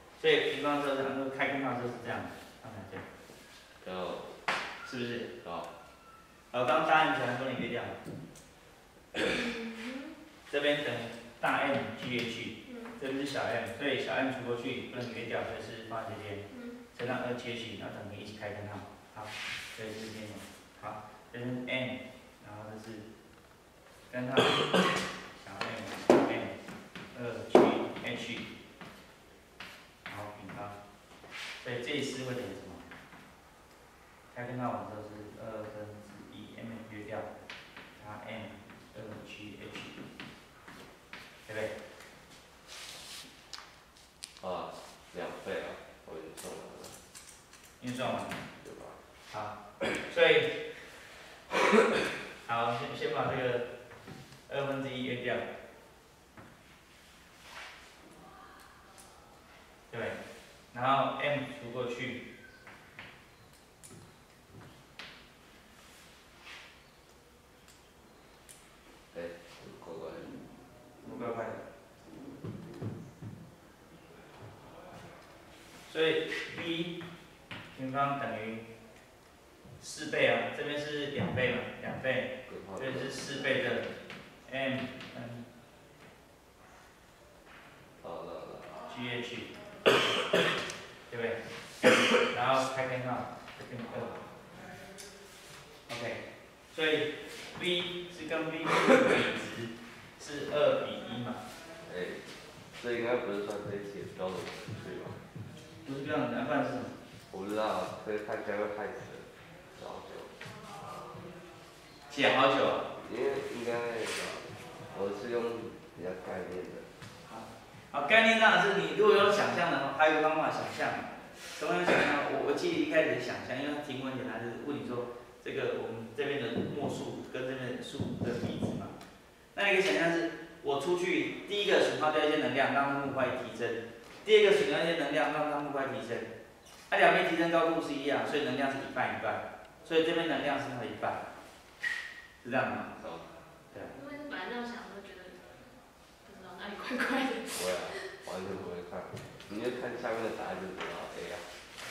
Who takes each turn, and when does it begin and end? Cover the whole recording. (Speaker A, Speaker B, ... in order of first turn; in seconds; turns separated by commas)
Speaker A: 0.2-3.0, Speaker B: 3.8-4.3, Speaker A: 4.8-5.3, Speaker B: 5.4-5.7, Speaker A: 6.5-8.0, Speaker C: 9.2-10.2, Speaker A: 10.5-23.1, Speaker C: 12.7-12.9, Speaker C: 16.5-16.8, Speaker A: 24.1-24.7, Speaker A: 25.4-26.6, Speaker A: 27.1-28.5, Speaker A: 30.1-30.8, Speaker A: 31.6-32.8, Speaker A: 34.3-37.3, Speaker A: 38.0-40.0, Speaker A: 41.5-41.7, Speaker B: 44.4-47.0, Speaker A: 47.8-48.4, Speaker B: 48.6-49.0, Speaker A: 49.3-50.6, Speaker A: 52.5-53.6, Speaker A: 54.5-55.5, Speaker A: 59.9-60.2, Speaker A: 60.7-62.2, Speaker B: 69.1-70.4, Speaker A: 71.0-71.6, Speaker A: 75.9-77.0, Speaker A: 77.7-78.6, Speaker A: 79.8-83.9, Speaker B: 82.5-83.3, Speaker A: 84.5-85.5, Speaker B: 88.0-88.8, Speaker A: 88.9-89.5, Speaker A: 91.1-94.1, Speaker A: 95.9-96.2, Speaker A: 96.7-101.4, Speaker B: 101.8-102.2, Speaker B: 102.8-105.2, Speaker A: 105.8-106.9, Speaker B: 107.3-110.3, Speaker A: 112.1-112.9, Speaker B: 113.0-116.9, Speaker A: 117.2-128.9, Speaker A: 129.5-136.3, Speaker A: 136.9-141.2, Speaker A: 142.4-142.9, Speaker B: 142.9-143.2, Speaker C: 143.9-148.1, Speaker B: 147.5-151.4